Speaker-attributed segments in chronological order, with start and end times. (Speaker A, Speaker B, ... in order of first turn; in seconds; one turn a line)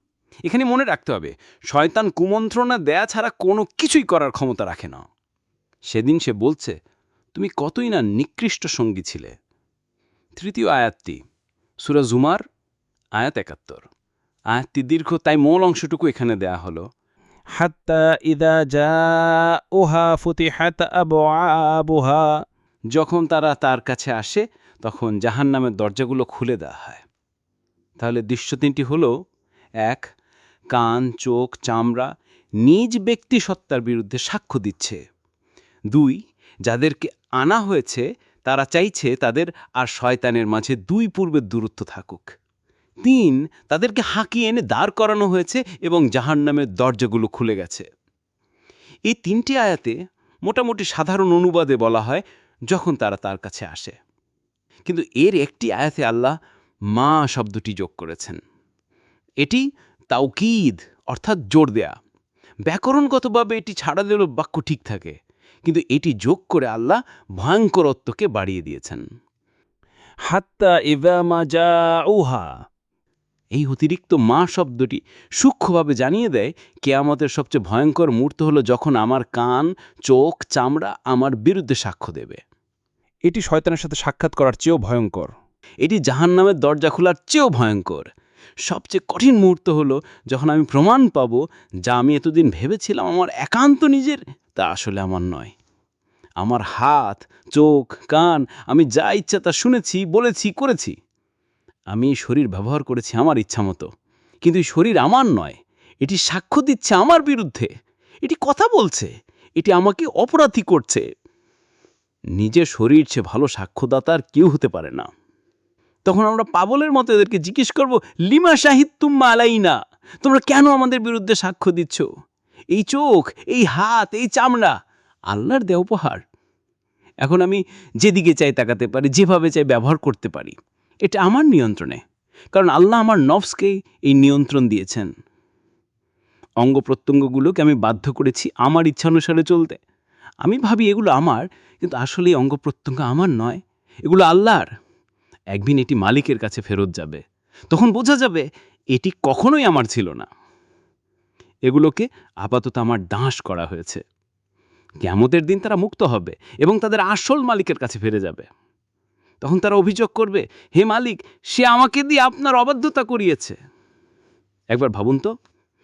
Speaker A: 0.5-5.0
Speaker A: 5.9-6.7
Speaker A: 7.3-9.3
Speaker A: 10.4-11.2
Speaker A: 11.8-12.4
Speaker A: 13.2-13.9
Speaker A: 14.5-16.8
Speaker B: 17.6-22.4
Speaker A: 22.9-27.0
Speaker A: 28.0-29.1
Speaker A: 30.7-32.1
Speaker A: 32.6-35.0
Speaker A: 35.9-42.3
Speaker A: 43.0-47.9
Speaker A: 49.1-53.9
Speaker A: 54.9-56.3
Speaker A: 56.9-58.4
Speaker A: 59.4-61.9
Speaker A: 62.7-69.0
Speaker B: 70.3-72.5
Speaker A: 73.5-82.4
Speaker B: 83.2-85.3
Speaker A: 85.8-88.0
Speaker A: 88.7-95.5
Speaker A: 96.4-100.9
Speaker A: 101.9-103.9
Speaker A: 104.4-107.7
Speaker A: 108.2-111.0
Speaker A: 112.4-115.1
Speaker A: 116.0-122.0
Speaker A: 122.7-124.7
Speaker A: 125.3-126.2
Speaker A: 127.2-132.0
Speaker A: 132.5-135.1
Speaker A: 136.6-139.8
Speaker A: 140.4-144.7
Speaker A: 145.5-147.2
Speaker A: 147.7-150.3
Speaker A: 151.7-154.0
Speaker A: 155.0-158.5
Speaker A: 159.4-163.6
Speaker A: 164.7-165.3